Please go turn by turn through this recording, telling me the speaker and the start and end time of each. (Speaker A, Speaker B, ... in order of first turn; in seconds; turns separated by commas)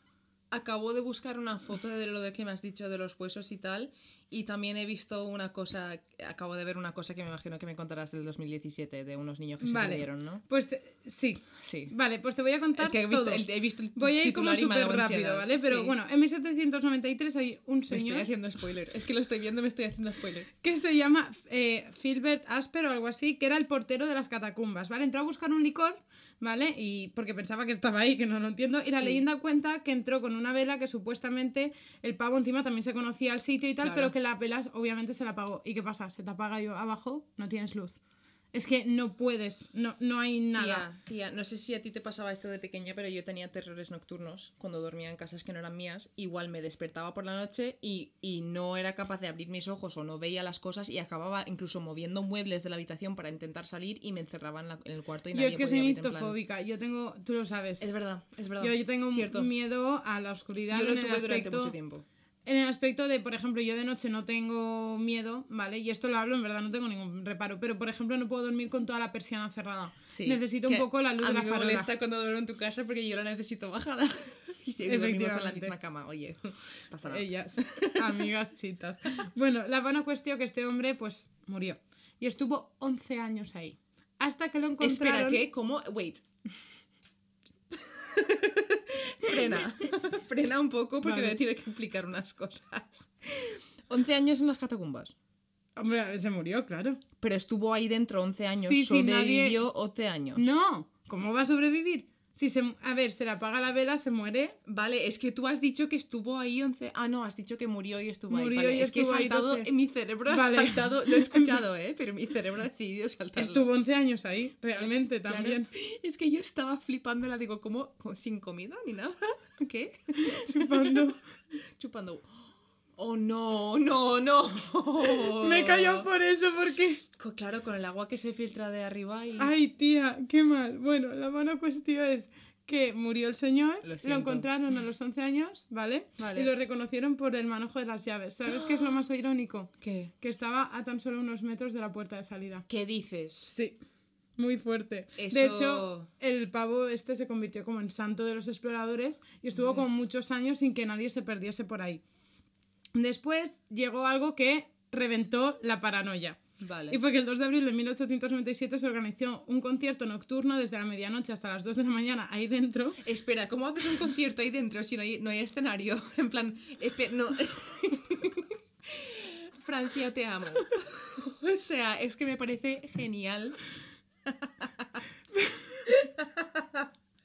Speaker A: 0.5-10.4, Speaker B: 9.6-13.4, Speaker A: 11.6-11.9, Speaker A: 12.8-15.9, Speaker B: 13.9-18.3, Speaker A: 17.9-20.5, Speaker B: 20.6-38.0, Speaker A: 29.0-29.2, Speaker A: 33.8-34.1, Speaker B: 38.5-40.9, Speaker A: 40.5-56.4, Speaker B: 55.3-57.9, Speaker A: 57.8-59.5, Speaker B: 58.6-61.7, Speaker A: 60.7-62.0, Speaker B: 62.5-71.9, Speaker A: 70.1-78.3, Speaker B: 74.8-75.7, Speaker B: 77.0-85.4, Speaker A: 84.8-86.2, Speaker A: 87.7-95.1, Speaker B: 91.0-91.4, Speaker B: 95.8-97.0, Speaker A: 97.2-100.5, Speaker B: 98.6-99.6, Speaker B: 100.3-104.5, Speaker A: 104.7-113.7, Speaker B: 108.3-109.7, Speaker B: 110.3-111.6, Speaker B: 113.3-115.7, Speaker A: 114.8-121.1, Speaker B: 120.2-121.2, Speaker A: 121.8-126.1, Speaker B: 125.2-127.0, Speaker A: 127.2-129.5, Speaker B: 129.4-142.7, Speaker A: 133.8-134.5, Speaker A: 136.2-136.5, Speaker A: 138.5-139.0, Speaker A: 139.8-140.1, Speaker A: 142.7-143.5, Speaker B: 143.4-143.8, Speaker B: 144.4-152.0, Speaker A: 145.2-146.1, Speaker A: 149.6-149.8, Speaker B: 152.9-156.4, Speaker A: 156.6-157.0, Speaker B: 156.9-163.0, Speaker A: 163.0-173.6, Speaker A: 174.2-175.0, Speaker A: 175.8-176.9